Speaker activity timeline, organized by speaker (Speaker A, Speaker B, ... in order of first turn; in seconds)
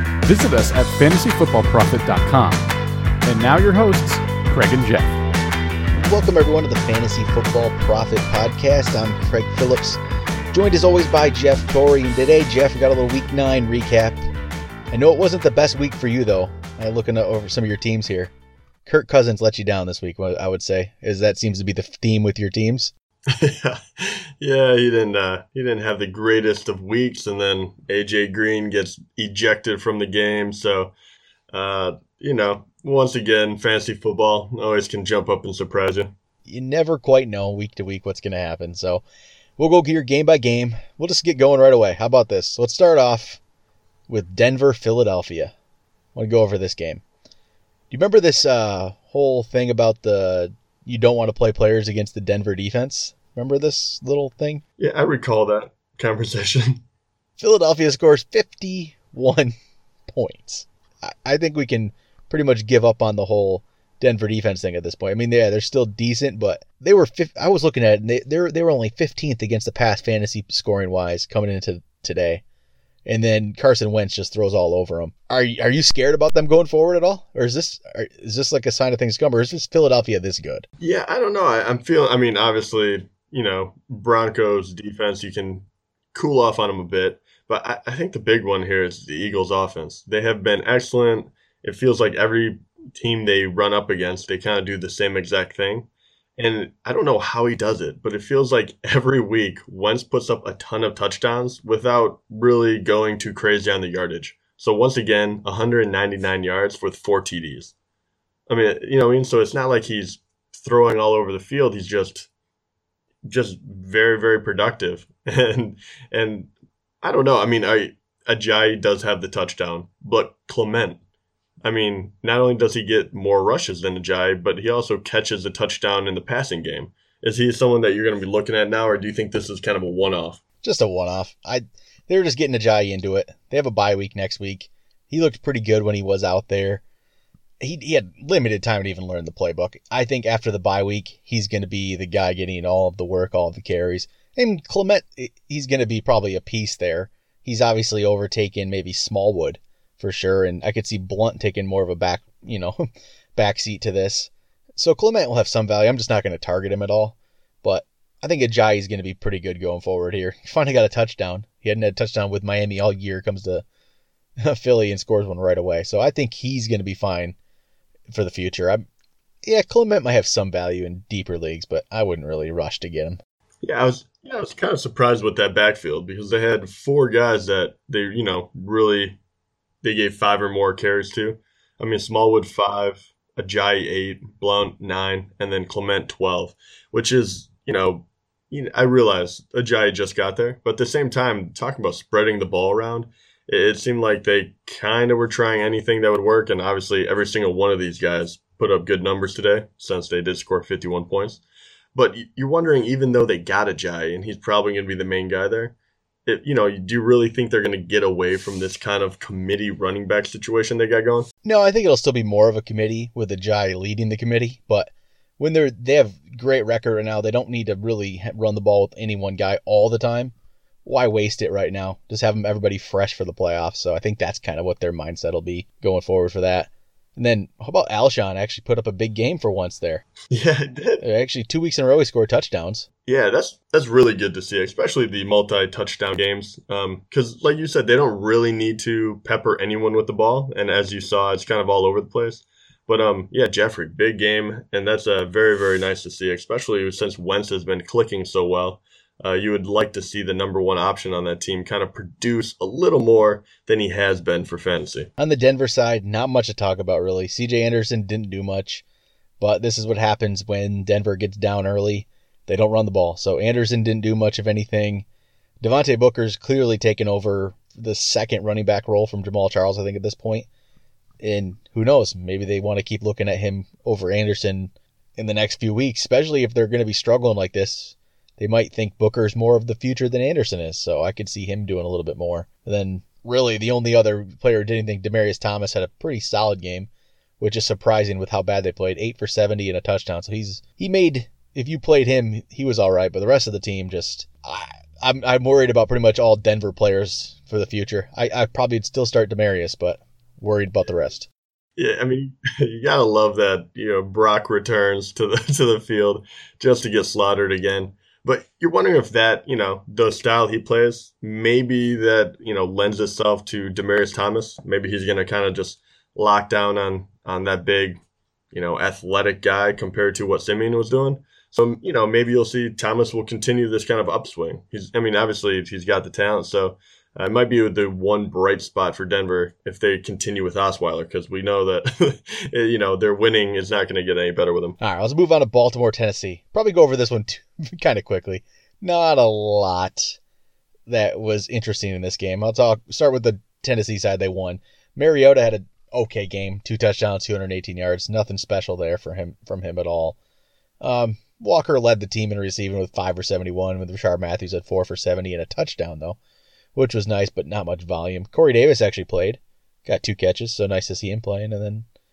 Speaker A: 0.2-2.7, 3.2-5.2
Speaker B: 5.9-10.0, 10.5-14.2, 14.9-18.3, 18.9-22.9, 36.5-39.0, 39.6-43.4, 44.1-45.5, 46.1-47.0, 47.9-54.6, 57.4-59.5, 60.1-72.4, 73.1-80.7, 130.6-136.8, 137.6-152.8, 153.4-163.7, 164.4-167.4, 168.1-168.9, 169.4-173.2, 211.4-220.3, 220.8-230.1, 231.0-232.9, 255.2-258.8, 259.4-265.1, 265.6-270.5, 271.2-301.3, 334.8-340.2, 340.9-350.2, 350.8-356.2, 356.8-361.9
Speaker C: 23.3-30.9, 31.5-36.1, 54.8-56.8, 80.8-107.7, 108.5-112.3, 113.3-116.5, 117.0-121.0, 121.6-130.4, 173.6-179.2, 179.8-201.4, 201.9-205.8, 206.3-211.3, 230.3-231.0, 233.1-255.1, 301.8-318.0, 318.5-334.8